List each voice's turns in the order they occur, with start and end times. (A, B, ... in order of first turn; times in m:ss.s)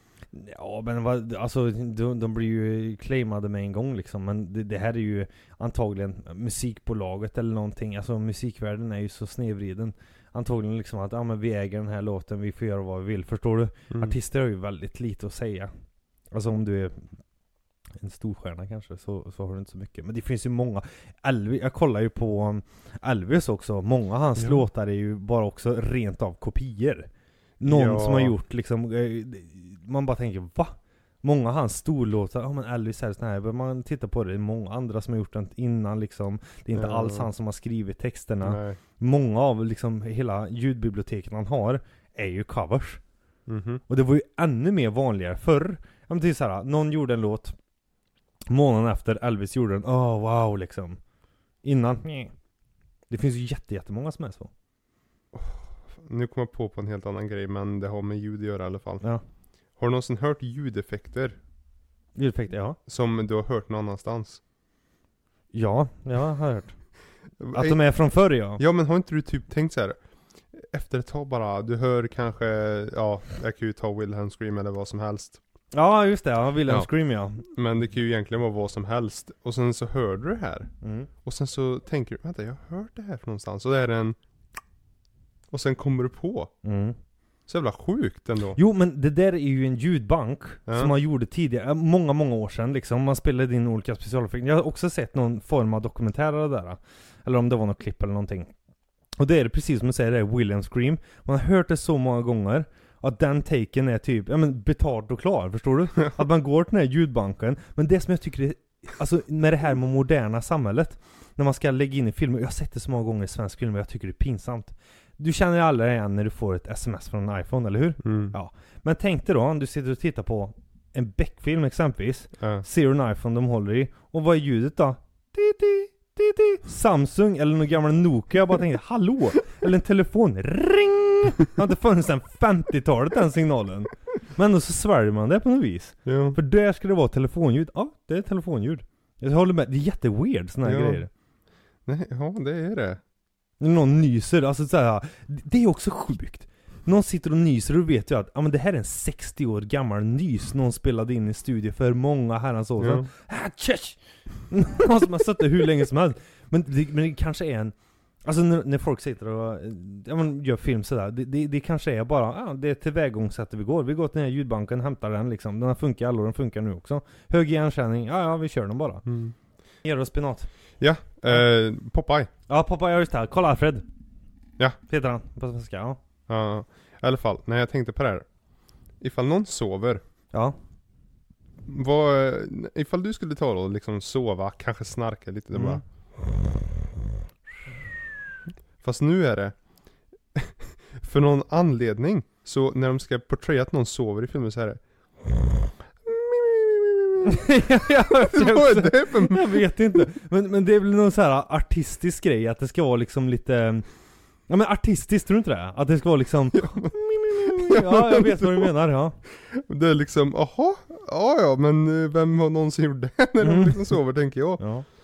0:00.3-0:15.7 A
0:16.3-0:17.2 A
0:18.0-0:27.1 A
0:24.4-0:24.7 B
0:27.6-0:43.0 A
0:27.6-0:28.4 B
0:36.7-0:37.3 B
0:38.4-0:38.8 B
0:43.5-0:43.8 B
0:43.9-0:47.6 A
0:48.5-0:51.0 A
0:51.6-0:52.3 A
0:53.1-0:54.5 A
0:55.3-0:59.0 B
0:59.8-1:01.4 B
1:02.2-1:02.8 A
1:02.9-1:04.4 B
1:05.5-1:06.8 A
1:07.4-1:07.8 B
1:07.5-1:08.6 A
1:08.6-1:10.0 B
1:10.5-1:15.4 B
1:15.7-1:17.4 A
1:17.5-1:20.7 B
1:20.8-1:21.1 A
1:21.2-1:24.2 B
1:25.5-1:26.5 B
1:26.6-1:27.0 A
1:27.5-1:28.6 B
1:28.6-1:38.5 A
1:30.7-1:30.9 B
1:39.2-2:21.1 A
1:58.0-1:58.4 B
2:02.4-2:02.6 B
2:16.0-2:16.4 B
2:20.6-2:21.0 B
2:21.9-2:23.0 B
2:23.6-2:37.7 A
2:32.8-2:33.1 B
2:38.2-2:49.0 A
2:49.1-2:49.4 B
2:49.8-2:50.5 A
2:50.8-2:52.3 B
2:52.5-2:53.8 A
2:54.9-2:56.0 A
2:56.3-2:58.3 B
2:59.0-3:00.0 B
3:01.7-3:05.8 B
3:05.5-3:05.8 A
3:08.8-3:09.6 B
3:10.3-3:19.7 B
3:17.2-3:23.9 A
3:24.5-3:29.2 A
3:26.6-3:28.7 B
3:29.3-3:34.6 B
3:33.4-3:34.0 A
3:34.6-3:34.9 A